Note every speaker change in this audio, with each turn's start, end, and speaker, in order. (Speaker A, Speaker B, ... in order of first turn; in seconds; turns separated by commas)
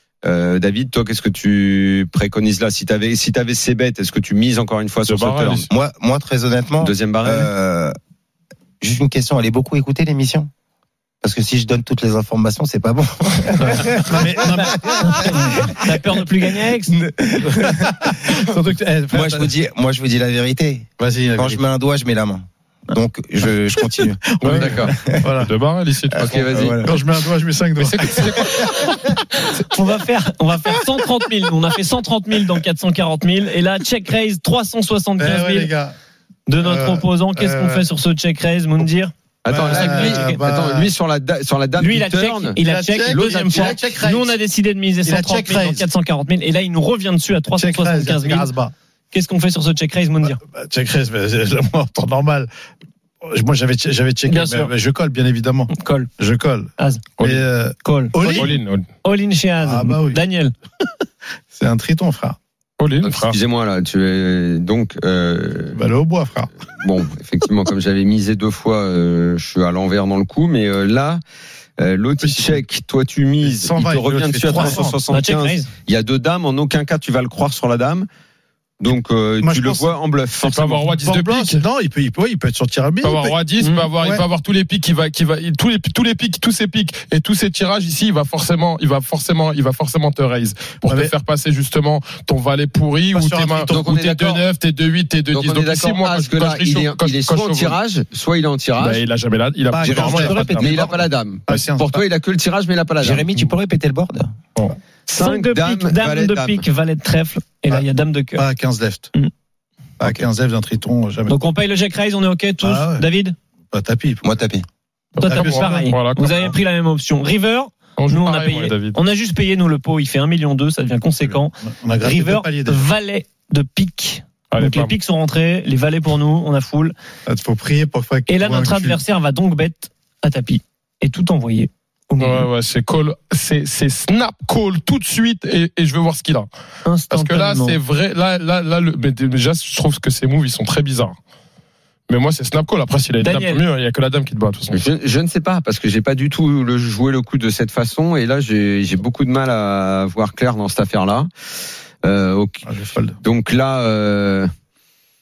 Speaker A: 0.2-5.7, Speaker B: 5.0-5.7, Speaker C: 5.7-7.9, Speaker A: 6.8-7.5, Speaker C: 8.8-10.5, Speaker C: 11.2-15.8, Speaker D: 13.6-14.8, Speaker E: 15.0-16.9, Speaker C: 16.9-18.4, Speaker D: 17.9-19.5, Speaker C: 19.1-24.2, Speaker D: 21.0-21.6, Speaker D: 23.8-25.5, Speaker B: 24.4-26.6, Speaker A: 24.5-24.9, Speaker C: 24.9-25.3, Speaker C: 26.1-26.7, Speaker A: 26.2-26.8, Speaker D: 26.5-28.3, Speaker B: 27.8-28.5, Speaker E: 29.6-35.7, Speaker D: 35.2-36.0, Speaker E: 36.5-39.1, Speaker D: 36.6-37.9, Speaker A: 39.4-43.8, Speaker D: 39.5-40.9, Speaker E: 39.7-40.4, Speaker E: 41.8-48.5, Speaker D: 42.6-44.4, Speaker D: 45.0-45.9, Speaker D: 47.6-48.7, Speaker E: 49.1-50.4, Speaker D: 50.2-52.5, Speaker D: 53.2-58.5, Speaker E: 54.3-54.7, Speaker E: 55.7-56.1, Speaker E: 56.8-57.0, Speaker E: 57.8-60.5, Speaker B: 58.3-58.9, Speaker D: 59.6-60.2, Speaker D: 61.5-62.4, Speaker B: 62.8-63.4, Speaker A: 63.0-65.8, Speaker D: 65.7-66.5, Speaker A: 66.7-71.2, Speaker A: 71.8-78.1, Speaker D: 72.2-72.5, Speaker D: 73.4-75.0, Speaker E: 74.6-75.7, Speaker A: 78.8-80.8, Speaker D: 79.4-80.0, Speaker B: 80.4-81.7, Speaker D: 80.7-83.4, Speaker B: 83.0-97.8, Speaker E: 83.6-83.9, Speaker D: 84.0-84.2, Speaker D: 90.8-91.2, Speaker D: 93.1-93.7, Speaker A: 93.7-94.5, Speaker A: 95.3-99.0, Speaker B: 98.8-100.7, Speaker D: 99.7-102.0, Speaker C: 99.8-100.5, Speaker A: 100.0-103.3, Speaker C: 103.0-104.3, Speaker E: 105.1-108.5, Speaker A: 105.1-106.7, Speaker D: 108.4-109.1, Speaker D: 110.0-111.3, Speaker E: 111.3-113.4, Speaker D: 112.6-113.0, Speaker D: 113.7-114.4, Speaker C: 114.2-114.7, Speaker B: 115.2-116.5, Speaker E: 115.2-127.0, Speaker D: 115.2-115.9, Speaker B: 118.0-119.0, Speaker D: 121.3-122.9, Speaker B: 124.5-124.9, Speaker D: 127.3-129.0, Speaker E: 128.3-132.5, Speaker B: 132.2-136.5, Speaker E: 136.8-137.8, Speaker B: 137.1-141.2, Speaker B: 142.1-144.9, Speaker E: 143.2-143.6, Speaker A: 144.7-151.3, Speaker A: 152.0-152.7, Speaker D: 152.7-153.2, Speaker A: 153.2-154.5